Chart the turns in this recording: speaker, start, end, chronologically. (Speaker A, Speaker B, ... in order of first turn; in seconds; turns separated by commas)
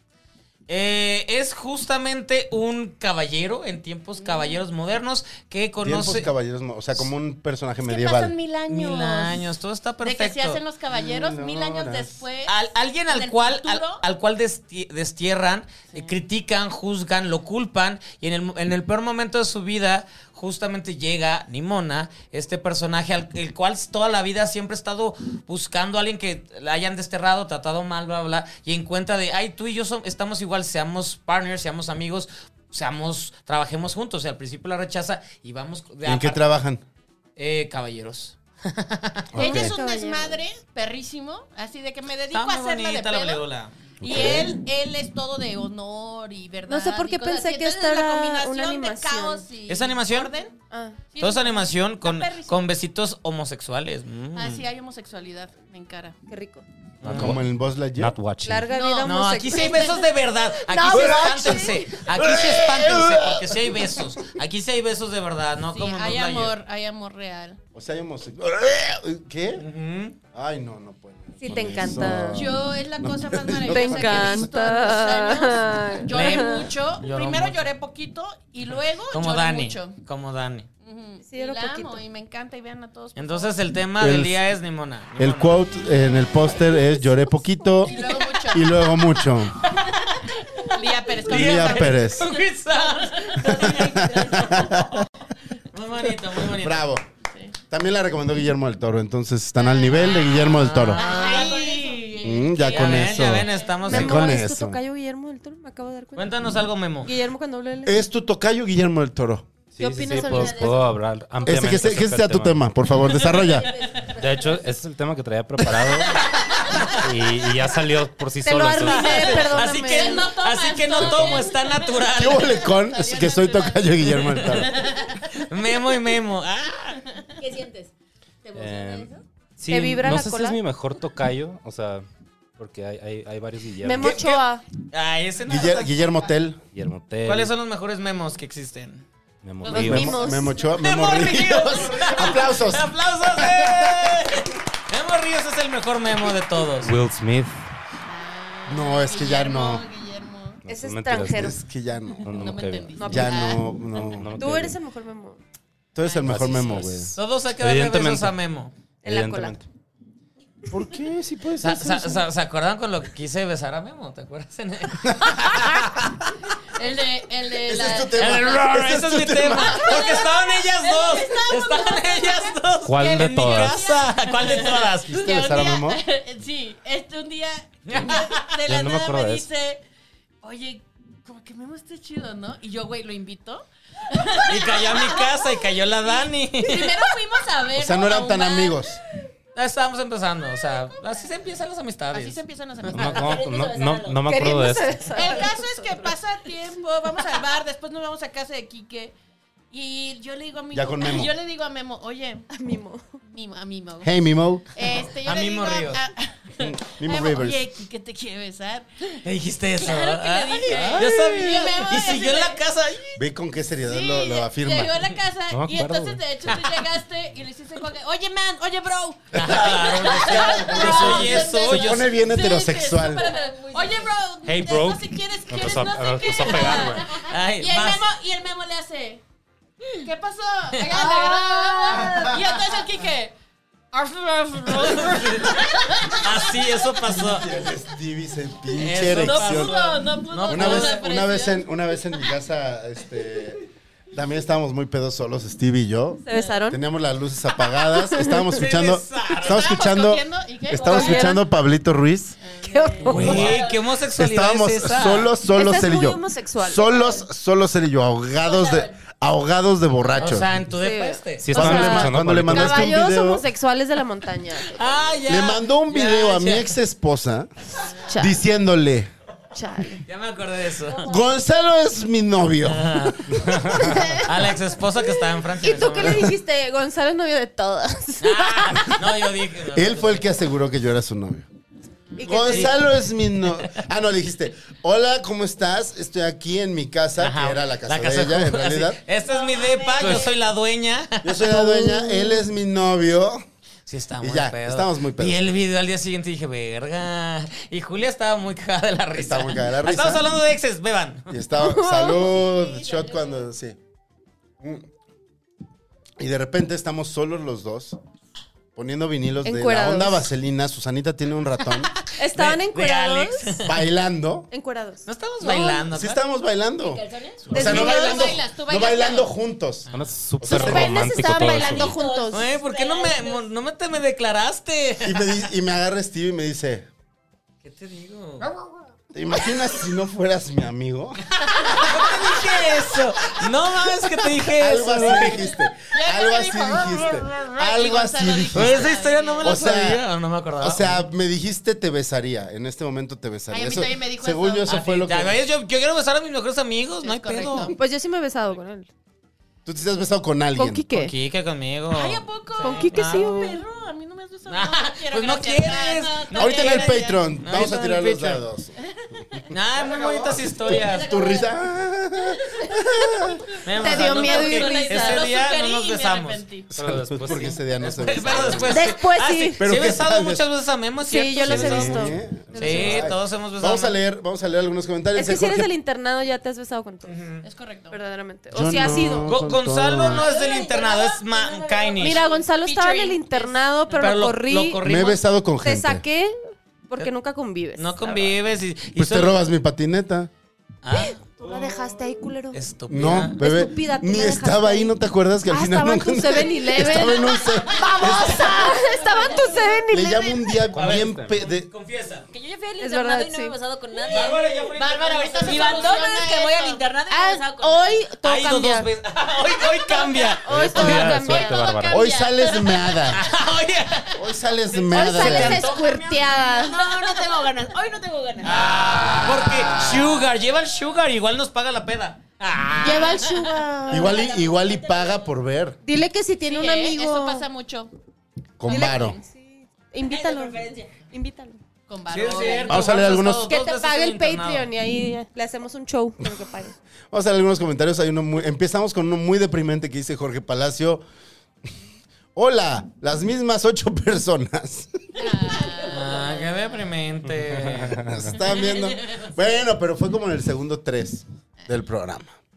Speaker A: 0.7-6.3, Speaker B: 4.2-4.6, Speaker C: 5.8-8.3, Speaker B: 7.8-12.5, Speaker A: 8.7-10.6, Speaker C: 10.9-12.2, Speaker A: 12.5-36.4, Speaker B: 13.1-14.0, Speaker B: 15.9-16.2, Speaker C: 36.0-36.8, Speaker A: 37.4-39.4, Speaker C: 39.3-39.8, Speaker B: 39.4-43.4, Speaker D: 39.4-40.4, Speaker A: 42.3-44.4, Speaker B: 44.0-50.6, Speaker C: 44.0-44.5, Speaker D: 46.6-49.5, Speaker A: 49.7-50.3, Speaker D: 50.7-51.1, Speaker B: 51.1-52.6, Speaker A: 51.2-54.6, Speaker B: 54.3-56.1, Speaker D: 56.3-56.6, Speaker A: 57.0-57.4, Speaker E: 57.0-57.4, Speaker C: 57.0-58.1, Speaker E: 58.0-58.7, Speaker D: 58.4-60.0, Speaker B: 58.7-60.1, Speaker A: 59.0-66.5, Speaker D: 60.6-61.9, Speaker C: 60.9-64.0, Speaker B: 61.0-61.5, Speaker B: 65.7-67.6, Speaker C: 67.7-69.6, Speaker A: 69.6-70.2, Speaker C: 70.3-74.5, Speaker D: 71.4-72.5, Speaker B: 72.3-80.0, Speaker D: 73.6-76.7, Speaker A: 76.1-77.7, Speaker A: 79.1-80.7, Speaker B: 80.8-83.6, Speaker D: 81.2-82.0, Speaker A: 83.2-85.6, Speaker C: 84.0-84.4, Speaker C: 85.2-88.0, Speaker B: 87.8-88.9, Speaker C: 88.5-89.6, Speaker A: 89.6-90.7, Speaker B: 90.6-92.2, Speaker A: 91.2-94.7, Speaker C: 91.3-92.3, Speaker F: 93.3-94.7, Speaker C: 93.5-95.0, Speaker A: 95.7-96.9, Speaker C: 96.5-97.0, Speaker C: 97.7-101.0, Speaker B: 99.6-100.0, Speaker A: 99.9-101.8, Speaker B: 100.9-103.8, Speaker F: 101.1-101.8, Speaker C: 102.2-104.8, Speaker A: 102.7-104.4, Speaker F: 103.3-103.8, Speaker D: 103.8-108.0, Speaker A: 106.2-107.2, Speaker C: 107.8-109.5, Speaker E: 109.7-112.7, Speaker D: 109.8-110.8, Speaker F: 110.0-111.0, Speaker C: 111.4-113.7, Speaker A: 113.0-113.6, Speaker F: 113.4-114.6, Speaker E: 114.1-116.3, Speaker A: 116.7-117.0, Speaker E: 116.9-119.6, Speaker D: 118.4-120.4, Speaker A: 118.8-122.6, Speaker F: 119.9-121.4, Speaker B: 120.0-121.7, Speaker E: 121.0-121.4, Speaker C: 122.1-124.7, Speaker B: 122.4-125.3, Speaker A: 124.0-127.0, Speaker F: 127.4-127.9, Speaker F: 128.4-129.2, Speaker E: 128.6-132.0, Speaker D: 129.7-130.6, Speaker E: 132.6-134.4, Speaker D: 133.8-134.6, Speaker A: 134.9-136.0, Speaker C: 135.5-136.6, Speaker E: 136.7-137.5, Speaker A: 137.2-139.0, Speaker E: 139.4-140.3, Speaker D: 139.7-140.6, Speaker C: 139.7-144.3, Speaker A: 140.6-146.9, Speaker E: 146.8-147.7, Speaker B: 148.0-150.6, Speaker C: 148.7-149.8, Speaker E: 150.6-151.6, Speaker D: 150.7-151.6, Speaker C: 151.2-152.3, Speaker E: 152.2-153.3, Speaker B: 152.3-153.7, Speaker D: 152.9-153.6, Speaker C: 153.0-154.3, Speaker E: 154.0-154.8, Speaker D: 154.4-155.4, Speaker C: 155.9-157.2, Speaker E: 156.3-158.3, Speaker A: 156.5-158.7, Speaker D: 159.0-159.6, Speaker E: 159.0-159.7, Speaker C: 160.7-162.2, Speaker A: 161.6-166.1, Speaker B: 166.8-168.3, Speaker C: 167.6-170.0, Speaker A: 168.1-175.4, Speaker B: 169.7-179.8, Speaker E: 172.8-173.8, Speaker C: 175.1-176.0, Speaker A: 177.8-178.5, Speaker E: 178.7-179.5, Speaker B: 180.4-188.8, Speaker A: 184.4-187.0, Speaker C: 187.7-189.0, Speaker A: 189.5-193.0, Speaker B: 192.1-193.4, Speaker E: 192.9-195.1, Speaker F: 193.1-194.3, Speaker D: 194.2-196.2, Speaker B: 195.1-199.1, Speaker B: 199.7-202.4, Speaker C: 200.7-201.3, Speaker D: 202.5-203.2, Speaker B: 203.3-204.1, Speaker C: 204.0-204.6, Speaker B: 204.7-209.2, Speaker A: 205.2-206.0, Speaker C: 206.6-207.6, Speaker A: 209.2-213.2, Speaker B: 209.8-212.6, Speaker C: 210.7-211.5, Speaker C: 213.2-214.9, Speaker B: 213.8-229.2, Speaker E: 215.5-216.5, Speaker A: 219.3-222.1, Speaker C: 219.3-223.3, Speaker F: 223.1-224.1, Speaker E: 224.4-227.2, Speaker A: 227.1-228.1, Speaker B: 230.0-233.3, Speaker F: 230.9-232.3, Speaker B: 233.9-236.5, Speaker A: 234.7-237.5, Speaker C: 237.1-239.8, Speaker A: 238.7-241.1, Speaker B: 239.1-241.7, Speaker C: 240.4-252.3, Speaker D: 246.2-246.8, Speaker D: 247.6-248.5, Speaker A: 248.5-249.7, Speaker B: 249.4-251.4, Speaker D: 250.7-251.4, Speaker B: 252.4-253.2, Speaker D: 252.6-253.5, Speaker F: 252.7-253.8, Speaker A: 253.1-255.3, Speaker C: 253.1-260.7, Speaker D: 255.4-257.2, Speaker F: 258.4-258.9, Speaker A: 260.1-261.7, Speaker D: 260.7-264.9, Speaker E: 261.4-262.9, Speaker C: 261.5-263.5, Speaker A: 264.7-266.8, Speaker C: 265.2-267.5, Speaker D: 268.1-268.4, Speaker C: 268.1-269.1, Speaker D: 269.5-270.0, Speaker A: 270.1-271.1, Speaker C: 271.0-273.9, Speaker A: 272.6-273.4, Speaker E: 273.4-273.9, Speaker D: 273.7-279.0, Speaker A: 274.2-276.3, Speaker A: 278.2-280.3, Speaker C: 279.7-281.5, Speaker D: 282.2-282.7, Speaker C: 282.2-289.0, Speaker A: 282.4-282.8, Speaker A: 287.2-291.5, Speaker B: 289.2-290.3, Speaker F: 289.5-290.1, Speaker C: 291.2-293.4, Speaker D: 291.4-292.4, Speaker A: 293.9-301.3, Speaker C: 294.2-295.4, Speaker C: 299.1-300.3, Speaker C: 301.3-303.8, Speaker D: 301.6-302.4, Speaker F: 302.4-303.5, Speaker C: 304.6-304.9, Speaker C: 306.2-308.0, Speaker C: 308.8-311.9, Speaker D: 309.4-310.3, Speaker A: 312.2-313.8, Speaker D: 312.2-313.6, Speaker C: 313.6-314.5, Speaker D: 314.5-315.8, Speaker A: 315.1-316.2, Speaker C: 315.6-319.9, Speaker F: 316.8-317.5, Speaker A: 317.5-318.2, Speaker D: 317.5-318.3, Speaker B: 317.6-319.3, Speaker E: 319.9-321.9, Speaker C: 320.4-321.7, Speaker D: 320.4-322.4, Speaker F: 321.5-323.4, Speaker A: 322.3-325.5, Speaker C: 325.0-326.9, Speaker A: 327.6-328.5, Speaker C: 329.1-332.1, Speaker A: 331.3-335.5, Speaker C: 334.5-340.1, Speaker B: 335.9-339.7, Speaker A: 338.5-341.0, Speaker C: 340.6-345.4, Speaker B: 343.5-344.8, Speaker A: 344.6-347.7, Speaker B: 347.0-347.8, Speaker D: 347.7-348.9, Speaker C: 349.6-350.9, Speaker D: 350.6-351.1, Speaker A: 350.9-353.6, Speaker B: 351.9-357.3, Speaker D: 352.6-353.6, Speaker A: 354.5-358.4, Speaker C: 356.3-358.8, Speaker D: 357.5-358.0, Speaker C: 359.3-363.9, Speaker A: 359.5-361.1, Speaker F: 360.7-361.5, Speaker A: 363.6-366.4, Speaker D: 363.7-365.2, Speaker B: 364.0-366.7, Speaker E: 366.7-367.6, Speaker C: 366.7-368.9, Speaker A: 367.8-374.0, Speaker D: 368.6-369.6, Speaker C: 369.6-370.4, Speaker D: 371.0-373.1, Speaker C: 371.4-375.7, Speaker E: 372.5-373.1, Speaker D: 375.1-377.1, Speaker A: 377.0-377.4, Speaker B: 377.4-378.0, Speaker D: 377.9-379.3, Speaker C: 378.5-380.3, Speaker A: 379.2-382.2, Speaker F: 380.0-382.4, Speaker D: 382.0-384.8, Speaker B: 382.1-383.6, Speaker A: 383.9-385.2, Speaker C: 384.8-386.0, Speaker D: 385.6-386.3, Speaker D: 386.9-388.0, Speaker A: 387.8-389.4, Speaker C: 388.9-390.3, Speaker A: 390.8-391.3, Speaker D: 390.9-400.6, Speaker A: 392.5-393.4, Speaker C: 392.9-398.7, Speaker F: 397.7-399.8, Speaker C: 399.9-401.7, Speaker E: 400.7-401.4, Speaker A: 400.7-402.2, Speaker F: 402.3-408.0, Speaker D: 402.8-403.5, Speaker A: 404.1-406.0, Speaker B: 404.2-406.8, Speaker D: 407.1-408.9, Speaker A: 408.2-411.2, Speaker D: 410.4-411.8, Speaker E: 410.5-412.1, Speaker B: 410.8-413.1, Speaker C: 411.9-413.3, Speaker A: 413.1-414.1, Speaker C: 414.1-415.6, Speaker A: 414.8-416.0, Speaker D: 414.9-416.8, Speaker F: 415.1-418.8, Speaker A: 418.4-423.5, Speaker C: 418.7-420.1, Speaker D: 422.8-424.2, Speaker F: 423.9-425.3, Speaker C: 423.9-425.8, Speaker D: 425.8-427.5, Speaker B: 426.4-427.9, Speaker C: 428.6-429.2, Speaker D: 428.7-431.6, Speaker B: 428.7-429.1, Speaker F: 430.0-431.0, Speaker B: 431.9-433.3, Speaker A: 432.1-434.7, Speaker F: 432.3-432.7, Speaker C: 432.7-433.5, Speaker D: 433.4-436.8, Speaker C: 437.1-441.0, Speaker C: 442.3-444.9, Speaker B: 445.2-446.4, Speaker F: 445.2-446.6, Speaker A: 445.9-448.0, Speaker E: 447.4-448.4, Speaker C: 448.0-452.3, Speaker F: 448.5-448.9